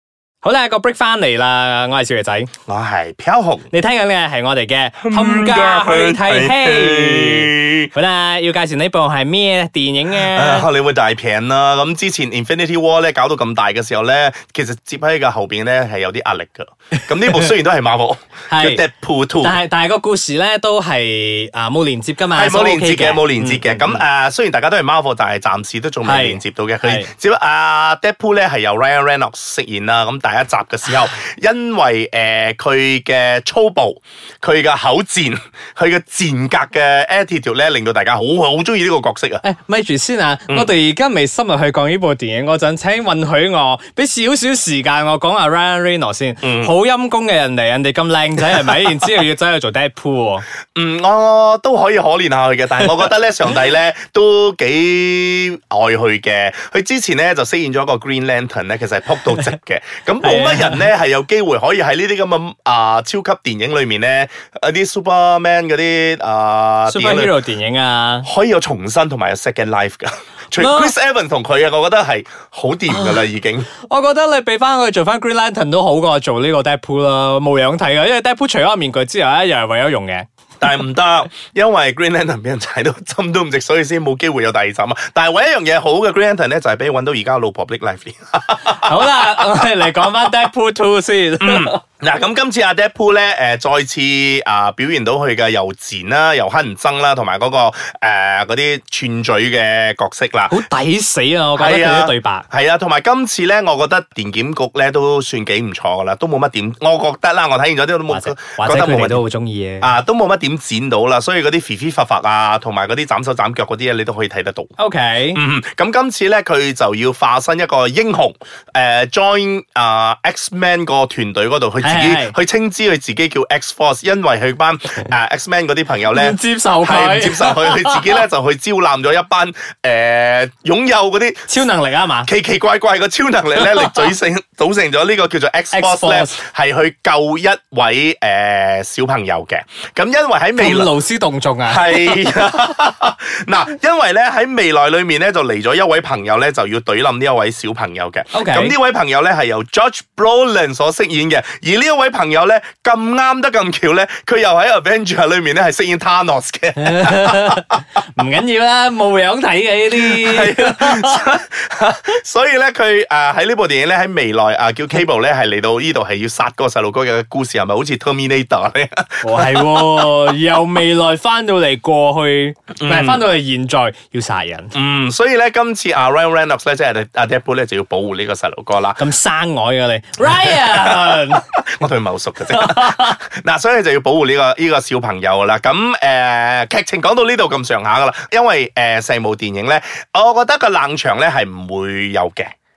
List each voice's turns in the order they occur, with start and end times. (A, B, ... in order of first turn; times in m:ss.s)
0:00.4-0:02.5 A
0:02.7-0:03.7 B
0:03.7-0:10.7 A
0:05.0-0:07.9 B
0:10.1-0:19.6 B
0:17.2-0:17.5 A
0:18.5-0:18.8 A
0:19.4-0:24.0 A
0:22.3-0:39.4 B
0:26.0-0:27.1 A
0:39.4-0:50.5 A
0:46.4-0:46.7 B
0:50.8-1:07.4 B
1:00.2-1:00.9 A
1:06.9-1:08.3 A
1:08.2-1:13.7 B
1:10.6-1:10.9 A
1:12.9-1:13.2 A
1:13.8-1:20.2 A
1:20.6-1:30.3 B
1:28.6-1:31.8 A
1:31.4-1:40.6 B
1:40.5-1:42.4 A
1:41.6-1:49.2 B
1:48.1-1:49.9 A
1:49.8-1:54.7 B
1:54.8-1:55.4 A
1:55.3-2:11.5 B
2:01.8-2:02.3 A
2:06.1-2:08.2 A
2:11.5-2:12.3 A
2:12.3-2:21.0 B
2:13.6-2:13.9 A
2:15.7-2:16.4 A
2:20.6-2:22.2 A
2:21.7-2:37.6 B
2:28.3-2:28.8 A
2:36.8-2:41.2 A
2:40.0-2:50.1 B
2:49.2-2:54.7 A
2:52.8-2:53.3 B
2:54.7-2:59.1 B
2:59.0-3:01.4 A
3:00.2-3:12.5 B
3:02.5-3:03.2 A